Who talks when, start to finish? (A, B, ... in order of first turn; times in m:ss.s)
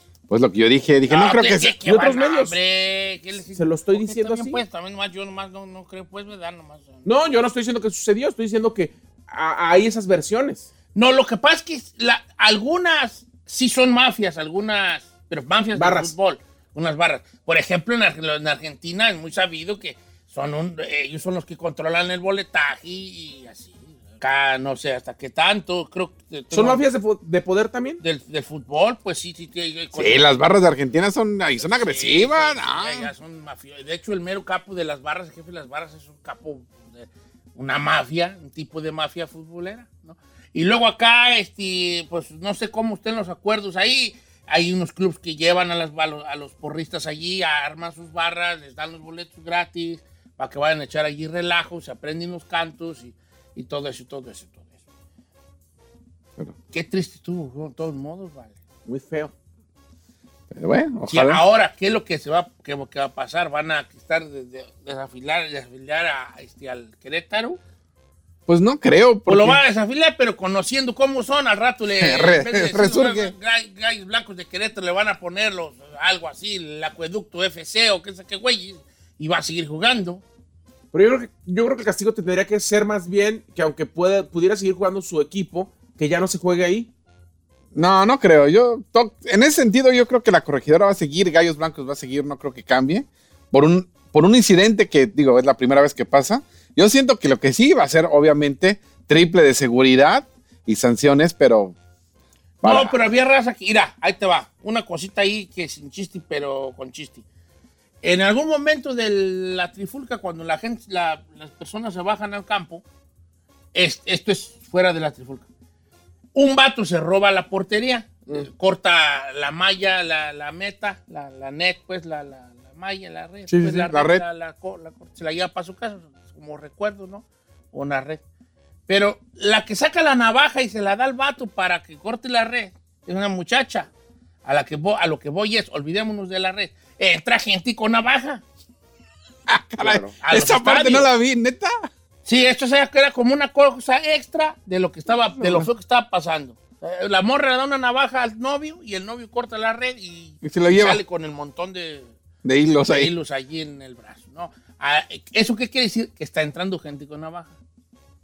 0:00.3-0:01.8 A
0:01.1-0:07.1 B
0:01.8-0:02.6 C
0:03.6-0:04.6 C
0:07.0-0:10.7 C
0:10.9-0:26.8 B
0:15.8-0:16.1 C
0:26.5-0:28.0 C
0:28.0-0:30.3 B
0:29.9-0:33.1 A
0:31.6-0:54.7 B
0:56.7-0:58.5 B
0:58.9-0:59.3 C
1:00.5-1:01.4 A
1:01.1-1:07.6 B
1:08.5-1:09.6 A
1:09.3-1:20.2 B
1:12.0-1:13.3 A
1:20.9-1:26.9 C
1:27.8-1:41.8 A
1:42.6-1:43.0 A
1:42.6-1:47.2 B
1:48.0-1:52.8 B
1:53.7-1:55.5 B
1:56.4-2:08.2 B
2:03.5-2:04.2 A
2:08.9-2:13.9 B
2:14.4-2:18.4 B
2:19.5-2:21.7 A
2:19.8-2:20.2 C
2:20.2-2:21.1 B
2:22.2-2:32.1 B
2:25.4-2:25.7 A
2:30.4-2:31.0 A
2:32.4-2:33.1 A
2:32.9-2:37.6 B